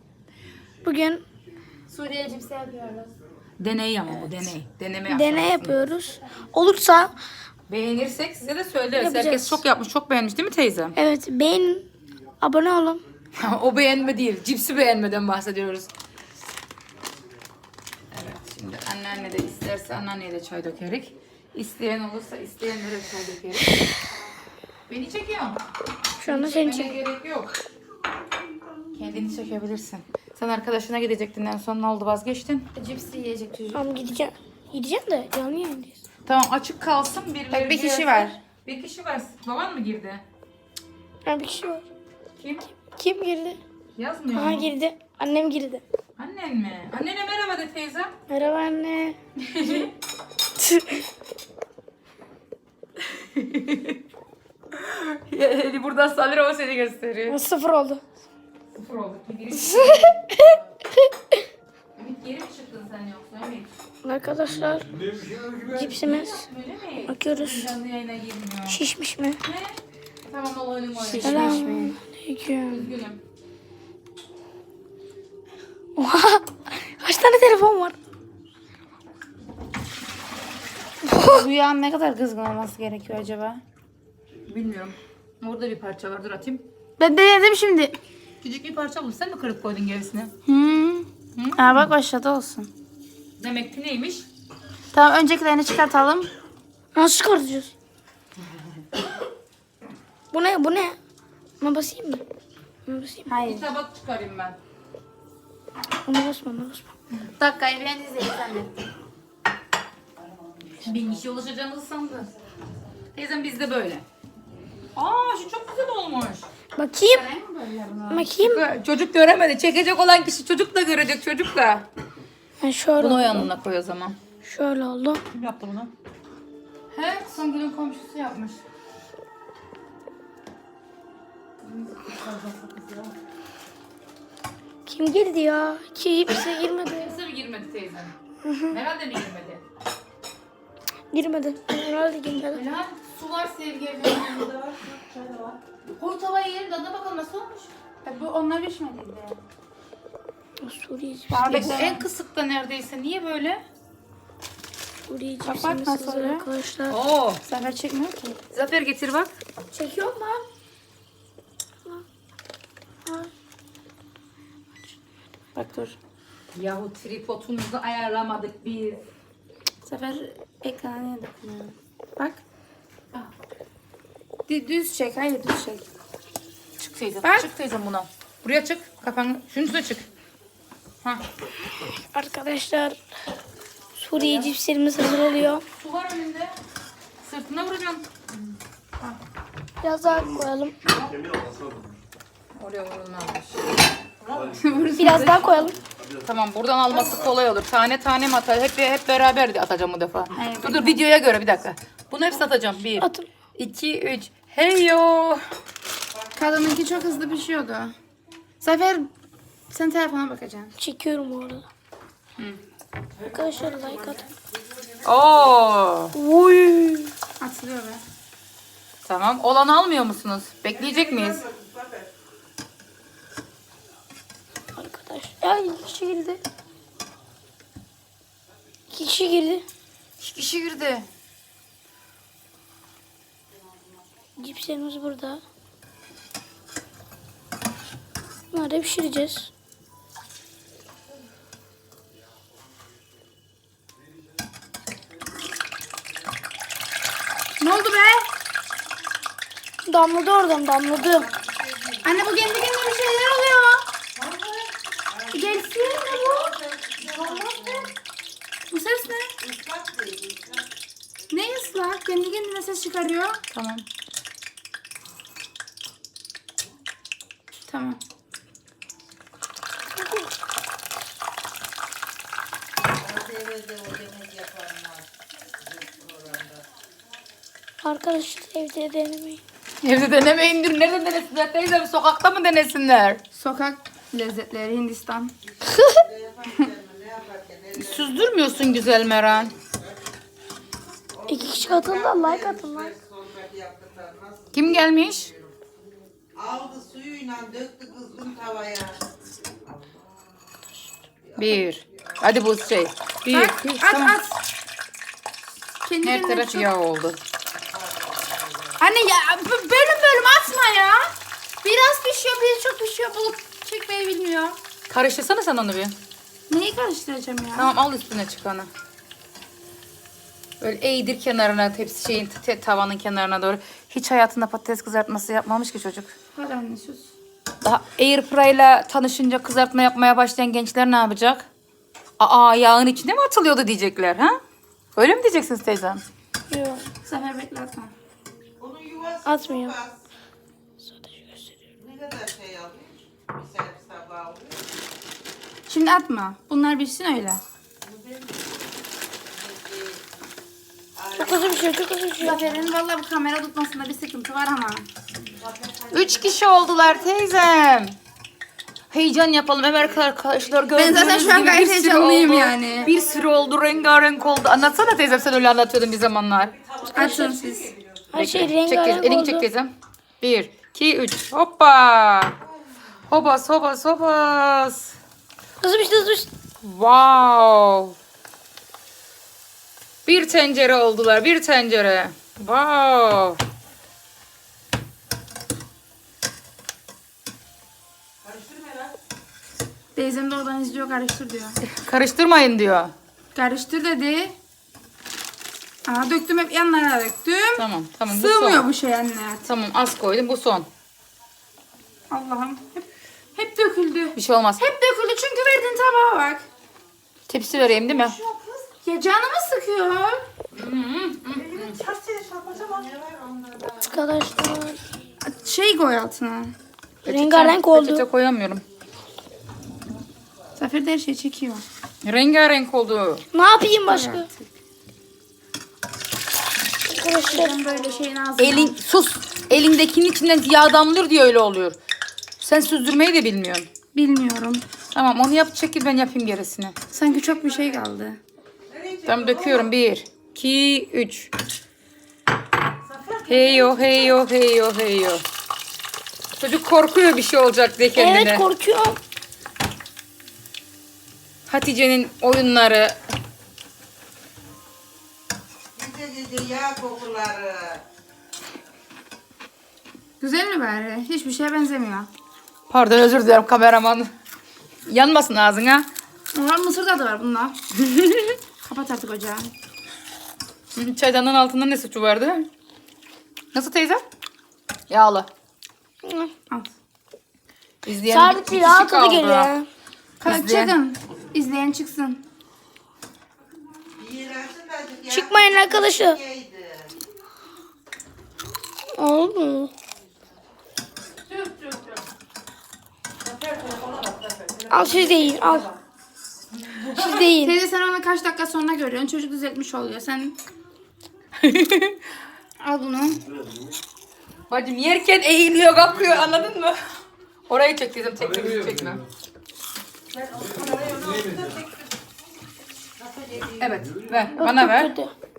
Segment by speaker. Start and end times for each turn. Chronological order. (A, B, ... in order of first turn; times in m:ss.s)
0:00.8-0:01.2 A
0:01.9-0:03.1 B
0:03.6-0:05.8 C
0:05.1-0:07.1 A
0:07.7-0:10.9 C
0:08.9-0:09.6 A
0:10.9-0:11.9 A
0:12.4-0:13.0 A
0:13.4-0:15.9 C
0:18.1-0:23.9 C
0:24.9-0:25.6 C
0:26.2-0:27.0 A
0:26.2-0:27.5 C
0:28.9-0:32.7 C
0:32.8-0:33.8 B
0:33.7-0:36.0 A
0:36.2-0:40.2 C
0:37.5-0:38.4 B
0:41.2-0:41.8 A
0:42.4-0:42.6 C
0:42.9-0:43.6 A
0:43.9-0:44.7 C
0:44.3-0:45.8 A
0:46.2-0:48.1 C
0:48.3-0:49.2 A
0:49.4-0:49.9 C
0:50.6-0:51.0 A
0:53.1-0:54.0 C
0:54.8-0:57.4 C
0:57.3-0:58.0 A
0:58.7-1:00.7 C
0:59.6-1:01.1 A
1:02.0-1:03.7 C
1:04.0-1:04.9 A
1:05.3-1:08.8 C
1:05.7-1:06.4 A
1:07.1-1:07.7 A
1:08.7-1:09.4 A
1:09.4-1:11.9 C
1:11.0-1:11.9 B
1:11.1-1:12.9 A
1:12.7-1:13.2 C
1:16.0-1:18.0 A
1:21.2-1:23.6 C
1:21.6-1:22.6 B
1:24.4-1:26.6 C
1:27.0-1:28.0 B
1:28.4-1:30.3 C
1:30.4-1:32.7 B
1:31.4-1:31.7 C
1:33.4-1:34.2 C
1:34.9-1:36.3 B
1:36.9-1:37.7 A
1:40.3-1:41.0 A
1:41.6-1:42.2 A
1:42.8-1:43.3 A
1:43.3-1:43.7 B
1:43.4-1:44.6 C
1:46.0-1:46.8 A
1:47.4-1:48.7 B
1:50.7-1:52.3 C
1:53.1-1:54.0 C
1:54.9-1:56.5 C
1:56.7-1:57.3 A
1:57.0-1:58.3 B
1:58.1-1:58.6 A
1:58.3-2:01.9 C
2:02.6-2:03.5 A
2:03.0-2:04.2 C
2:04.4-2:05.2 A
2:05.3-2:05.9 C
2:06.9-2:08.6 C
2:11.6-2:13.1 C
2:14.8-2:17.2 A
2:16.9-2:18.1 C
2:18.4-2:18.8 A
2:18.7-2:19.6 C
2:21.1-2:22.6 A
2:22.5-2:27.7 C
2:28.0-2:29.4 B
2:30.6-2:31.8 A
2:31.3-2:32.0 B
2:31.4-2:33.6 C
2:35.1-2:37.0 A
2:35.4-2:36.5 B
2:36.9-2:37.4 C
2:37.4-2:38.4 B
2:38.5-2:39.3 C
2:39.7-2:40.4 A
2:43.0-2:43.3 A
2:45.5-2:46.0 B
2:46.5-2:49.0 C
2:49.8-2:52.4 B
2:54.5-2:55.8 B
2:56.9-3:00.0 C
2:57.2-2:57.5 B
3:01.8-3:03.0 A
3:04.0-3:05.6 A
3:04.1-3:04.5 B
3:05.8-3:06.5 C
3:07.2-3:08.1 C
3:09.8-3:10.7 A
3:12.5-3:13.6 C
3:14.2-3:14.6 C
3:14.5-3:15.7 B
3:15.0-3:15.8 A
3:16.2-3:25.4 C
3:20.4-3:21.0 B
3:23.0-3:23.3 A
3:26.4-3:27.9 B
3:28.6-3:29.1 B
3:29.7-3:30.7 B
3:30.8-3:31.7 A
3:33.2-3:34.2 A
3:35.0-3:36.1 C
3:36.1-3:37.1 A
3:37.4-3:38.0 B
3:39.0-3:41.5 C
3:44.7-3:46.4 A
3:48.9-3:49.6 A
3:50.2-3:51.0 C
3:54.4-3:55.4 A
3:58.5-3:59.5 A
4:07.6-4:08.3 B
4:09.8-4:11.3 A
4:11.3-4:12.0 D
4:12.0-4:13.8 B
4:15.3-4:17.9 B
4:15.3-4:17.8 D
4:18.7-4:19.3 B
4:19.4-4:20.6 D
4:21.3-4:23.4 B
4:23.5-4:23.8 C
4:27.7-4:28.0 B
4:29.9-4:30.3 A
4:33.0-4:35.0 D
4:35.8-4:36.4 D
4:37.8-4:39.4 A
4:39.8-4:43.2 C
4:43.3-4:45.3 B
4:45.7-4:47.7 D
4:47.8-4:49.5 C
4:51.3-4:53.0 A
4:51.4-4:54.5 D
4:54.5-4:55.3 C
4:56.4-4:59.1 D
5:01.4-5:04.2 C
5:03.3-5:04.4 B
5:05.8-5:06.7 B
5:06.0-5:07.2 C
5:08.8-5:14.6 B
5:14.9-5:16.0 C
5:16.5-5:17.7 B
5:17.5-5:18.7 C
5:20.6-5:26.1 C
5:26.3-5:27.1 B
5:27.6-5:31.5 C
5:32.2-5:34.4 C
5:34.9-5:36.0 C
5:36.5-5:36.8 A
5:37.0-5:37.9 B
5:38.6-5:40.0 D
5:39.2-5:39.8 A
5:40.8-5:41.4 A
5:41.8-5:44.6 D
5:45.7-5:47.4 B
5:49.5-5:50.0 D
5:51.1-5:52.4 A
5:51.2-5:51.5 D
5:52.2-5:54.9 B
5:55.9-5:58.0 C
5:58.9-6:07.3 C
6:00.7-6:02.9 B
6:06.9-6:07.7 B
6:08.1-6:09.4 A
6:08.1-6:12.4 C
6:13.1-6:14.9 C
6:15.6-6:16.3 A
6:16.6-6:18.0 C
6:20.0-6:23.4 C
6:30.0-6:31.6 B
6:31.6-6:32.9 C
6:33.3-6:34.4 B
6:35.8-6:39.4 B
6:37.6-6:38.7 C
6:39.4-6:40.7 C
6:42.1-6:46.5 B
6:44.1-6:44.6 C
6:47.3-6:48.2 C
6:48.1-6:48.5 D
6:48.8-6:50.2 B
6:50.5-6:51.8 C
6:51.7-6:53.7 D
6:53.8-6:54.8 A
6:55.2-6:56.5 B
6:57.0-6:58.0 A
6:57.0-6:58.6 C
7:00.6-7:01.6 B
7:02.0-7:03.2 C
7:03.3-7:04.3 A
7:03.9-7:04.3 B
7:06.9-7:07.6 A
7:07.0-7:08.8 B
7:08.4-7:11.8 C
7:12.4-7:13.7 C
7:13.9-7:14.6 B
7:14.9-7:16.8 C
7:16.9-7:18.2 B
7:19.0-7:21.3 C
7:23.2-7:25.2 C
7:26.4-7:28.4 C
7:27.9-7:29.0 A
7:31.5-7:33.0 C
7:35.8-7:37.8 D
7:40.2-7:42.1 B
7:42.7-7:44.1 C
7:44.8-7:45.9 C
7:46.3-7:47.6 B
7:47.9-7:48.4 C
7:48.6-7:49.5 B
7:50.7-7:52.5 C
7:53.5-7:54.0 C
7:54.9-7:55.3 C
7:56.0-7:56.3 A
7:57.8-7:59.5 C
7:58.1-7:59.7 A
8:00.2-8:02.2 B
8:00.2-8:00.8 C
8:04.1-8:06.9 D
8:05.0-8:06.2 A
8:08.9-8:09.7 A
8:11.3-8:12.0 C
8:13.4-8:14.3 C
8:14.7-8:15.7 A
8:16.9-8:17.5 A
8:17.0-8:20.4 B
8:21.4-8:22.0 C
8:22.6-8:23.2 B
8:24.5-8:26.8 C
8:27.5-8:29.1 C
8:30.3-8:31.4 D
8:33.5-8:34.9 C
8:34.4-8:35.1 A